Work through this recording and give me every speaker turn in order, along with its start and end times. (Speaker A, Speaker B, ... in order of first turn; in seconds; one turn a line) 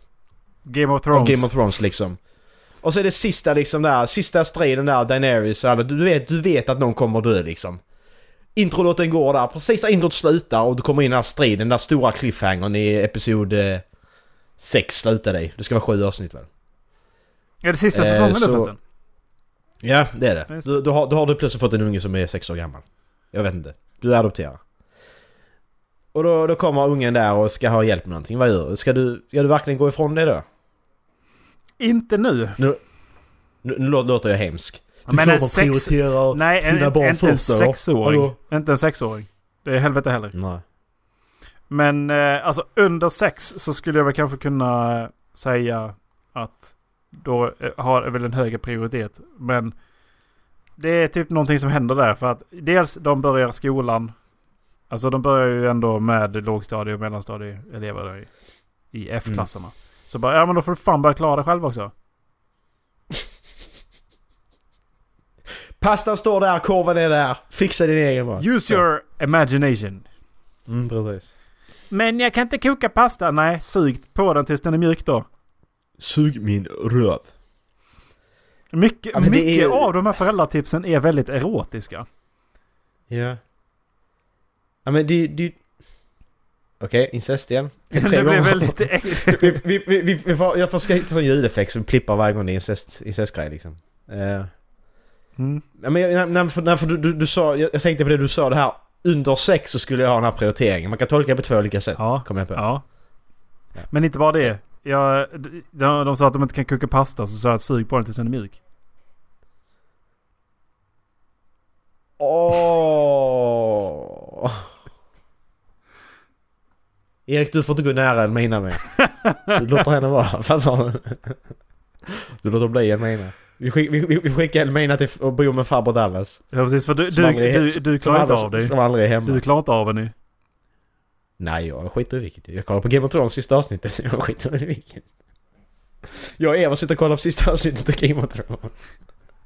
Speaker A: 0.7-1.5
Speaker B: 1.1-7.8
Speaker B: 8.6-13.9
Speaker B: 14.6-16.5
Speaker A: 17.6-18.8
Speaker B: 17.9-18.7
Speaker B: 19.8-24.6
Speaker B: 26.1-30.4
Speaker A: 31.8-32.6
Speaker B: 32.6-32.9
Speaker B: 33.5-38.4
Speaker A: 35.1-40.4
Speaker B: 40.3-40.6
Speaker A: 41.7-49.7
Speaker A: 50.8-54.2
Speaker A: 54.9-61.9
Speaker B: 65.8-68.8
Speaker A: 68.4-70.1
Speaker B: 70.7-71.3
Speaker A: 71.9-75.3
Speaker B: 76.0-77.3
Speaker A: 78.7-82.1
Speaker B: 79.1-79.9
Speaker B: 83.1-83.4
Speaker B: 84.8-85.6
Speaker B: 86.8-94.5
Speaker A: 87.9-89.6
Speaker A: 95.4-95.6
Speaker B: 95.8-102.7
Speaker A: 102.0-102.9
Speaker A: 103.9-108.6
Speaker B: 112.2-114.6
Speaker B: 117.3-121.4
Speaker A: 119.0-119.5
Speaker B: 122.4-126.5
Speaker A: 126.5-130.1
Speaker B: 127.1-129.4
Speaker B: 131.4-135.1
Speaker B: 136.1-139.0